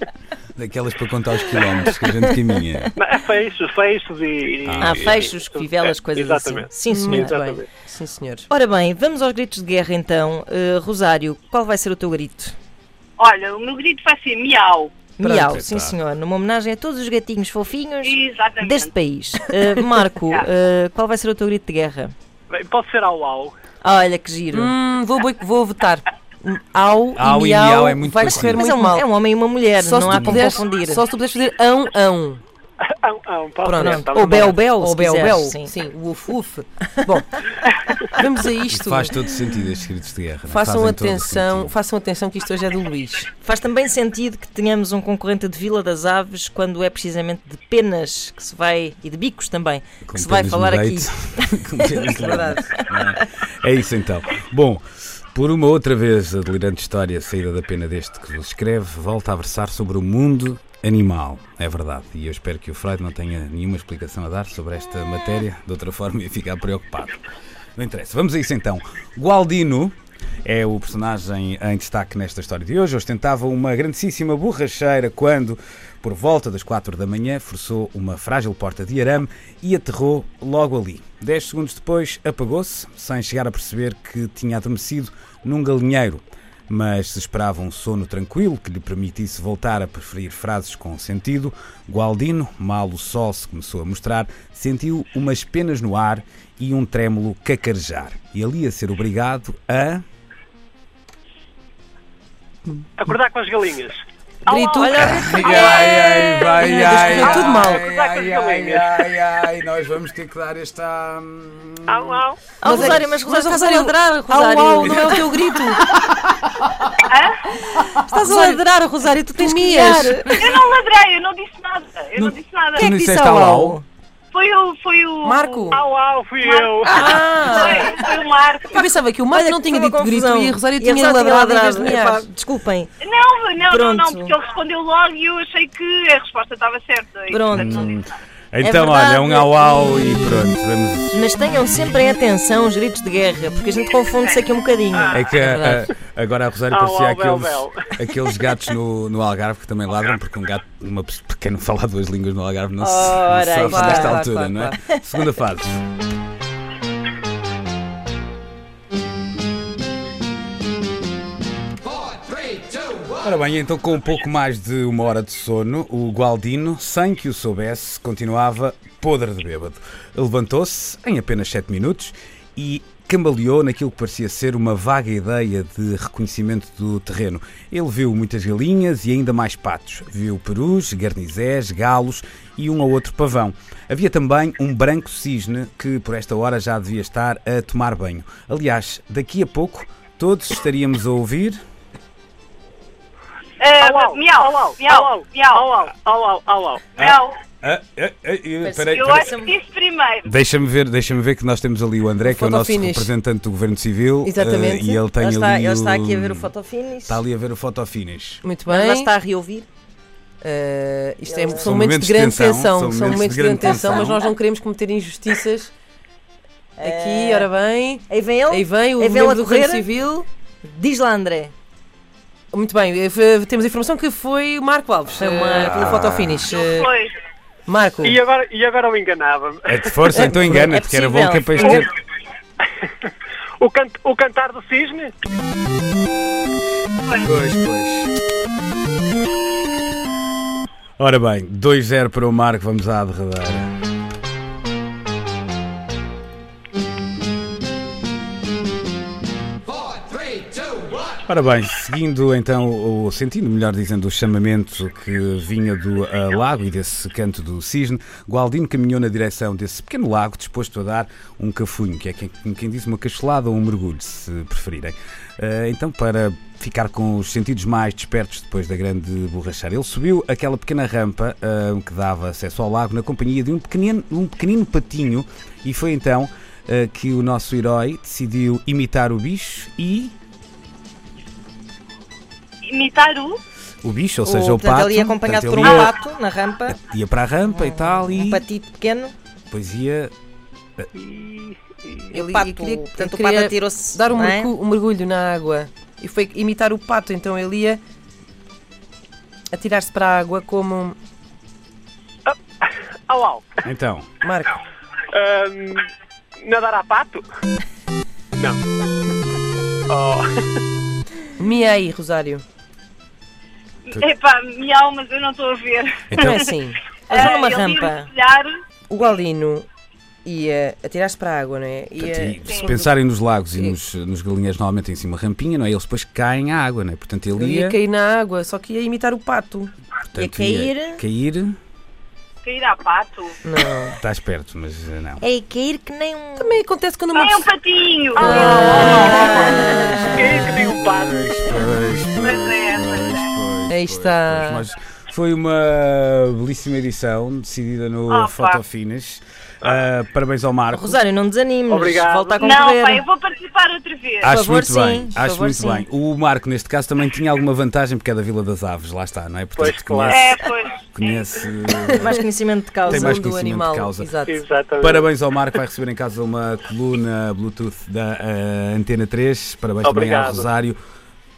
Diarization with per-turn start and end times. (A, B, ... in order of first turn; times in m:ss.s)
0:00.6-0:02.9 A
0:03.0-0:07.6 B
0:04.6-0:05.2 A
0:04.8-0:07.4 C
0:06.9-0:08.4 D
0:08.5-0:12.6 C
0:13.2-0:14.9 E
0:15.2-0:22.1 C
0:15.2-0:15.6 D
0:15.4-0:16.0 A
0:18.0-0:18.9 E
0:22.5-0:23.5 B
0:23.8-0:24.7 C
0:24.5-0:29.1 D
0:27.1-0:28.6 A
0:28.4-0:31.0 C
0:29.8-0:32.4 D
0:30.0-0:30.5 A
0:33.0-0:34.5 B
0:33.6-0:37.4 D
0:33.8-0:35.7 C
0:38.1-0:39.1 D
0:38.7-0:41.7 A
0:40.5-0:43.3 D
0:43.4-0:53.1 C
0:50.0-1:07.2 A
0:52.2-0:52.6 D
1:07.8-1:40.0 A
1:43.0-1:46.5 B
1:44.5-1:45.4 D
1:44.8-1:47.6 C
1:45.0-1:52.2 A
1:46.5-1:47.8 D
1:47.2-1:49.1 B
1:51.9-1:52.5 B
1:52.6-1:55.3 C
1:52.6-1:55.8 D
1:54.8-1:56.9 A
1:57.1-1:57.3 E
1:57.7-2:00.3 C
1:58.2-1:58.6 D
1:59.3-2:00.4 D
2:00.3-2:02.9 E
2:02.2-2:03.8 A
2:02.8-2:03.8 C
2:04.3-2:05.6 E
2:05.2-2:05.8 D
2:05.7-2:07.2 B
2:06.4-2:08.8 E
2:06.8-2:08.0 D
2:08.7-2:12.3 D
2:09.3-2:12.9 C
2:13.0-2:17.9 E
2:13.6-2:14.4 C
2:17.3-2:17.9 C
2:17.5-2:21.2 A
2:18.6-2:19.7 C
2:21.1-2:25.3 C
2:25.1-2:35.8 A
2:25.3-2:25.8 D
2:26.7-2:27.9 B
2:32.8-2:34.2 C
2:33.7-2:34.8 D
2:43.2-3:11.6 A
3:13.6-3:15.7 E
3:13.8-3:16.9 B
3:17.0-3:17.4 E
3:17.0-3:19.3 A
3:18.6-3:19.5 C
3:18.9-3:20.3 E
3:20.2-3:26.5 A
3:22.2-3:23.1 D
3:24.2-3:25.0 D
3:25.2-3:27.2 C
3:27.1-3:28.4 A
3:28.4-3:29.1 D
3:28.7-3:29.7 C
3:30.4-3:35.7 D
3:31.2-3:31.7 C
3:31.6-3:34.2 A
3:36.8-3:37.5 C
3:36.8-3:40.2 D
3:38.1-3:39.9 C
3:40.6-3:41.5 C
3:42.5-3:46.9 D
3:45.2-3:46.2 C
3:45.5-3:46.5 A
3:46.4-3:47.2 E
3:47.7-3:48.2 D
3:48.0-3:50.0 B
3:49.7-3:51.9 A
3:50.1-3:50.7 D
3:50.4-3:51.9 C
3:51.6-3:51.9 B
3:52.8-3:55.1 B
3:57.2-3:58.1 A
4:01.0-4:03.7 A
4:11.3-4:40.1 A
4:42.7-4:43.4 E
4:43.8-4:46.0 A
4:44.2-4:46.8 C
4:45.6-4:45.9 E
4:46.7-4:48.4 A
4:47.5-4:49.1 C
4:49.5-4:50.1 A
4:51.0-4:52.0 B
4:52.1-4:54.5 C
4:52.1-4:57.8 D
4:59.5-5:01.0 D
5:02.2-5:03.6 B
5:03.6-5:04.1 A
5:04.2-5:04.6 D
5:05.1-5:05.8 B
5:06.4-5:07.2 B
5:09.9-5:10.6 B
5:11.4-5:12.4 D
5:13.9-5:16.5 E
5:16.1-5:16.4 A
5:16.1-5:16.8 D
5:17.1-5:18.6 E
5:17.1-5:18.1 C
5:18.9-5:19.7 D
5:20.2-5:22.9 D
5:22.0-5:27.8 A
5:22.4-5:22.7 E
5:27.3-5:29.7 D
5:30.1-5:31.6 A
5:30.1-5:31.0 C
5:32.4-5:33.4 E
5:33.4-5:34.0 D
5:34.0-5:35.2 A
5:35.2-5:36.6 C
5:36.4-5:37.5 D
5:37.1-5:39.4 E
5:38.1-5:41.2 B
5:38.2-5:40.0 D
5:38.5-5:40.1 C
5:38.9-5:51.0 A
5:42.2-5:43.3 E
5:43.7-5:44.6 D
5:48.1-5:48.6 E
5:50.7-5:53.0 C
5:51.7-5:52.5 B
5:52.4-5:54.3 E
5:54.2-6:02.2 A
5:54.3-5:55.2 C
5:55.1-5:55.8 D
5:59.6-6:00.3 B
6:00.1-6:01.4 E
6:02.0-6:03.2 C
6:02.8-6:04.4 D
6:02.9-6:04.1 A
6:04.3-6:05.0 B
6:04.8-6:10.8 A
6:09.8-6:10.5 B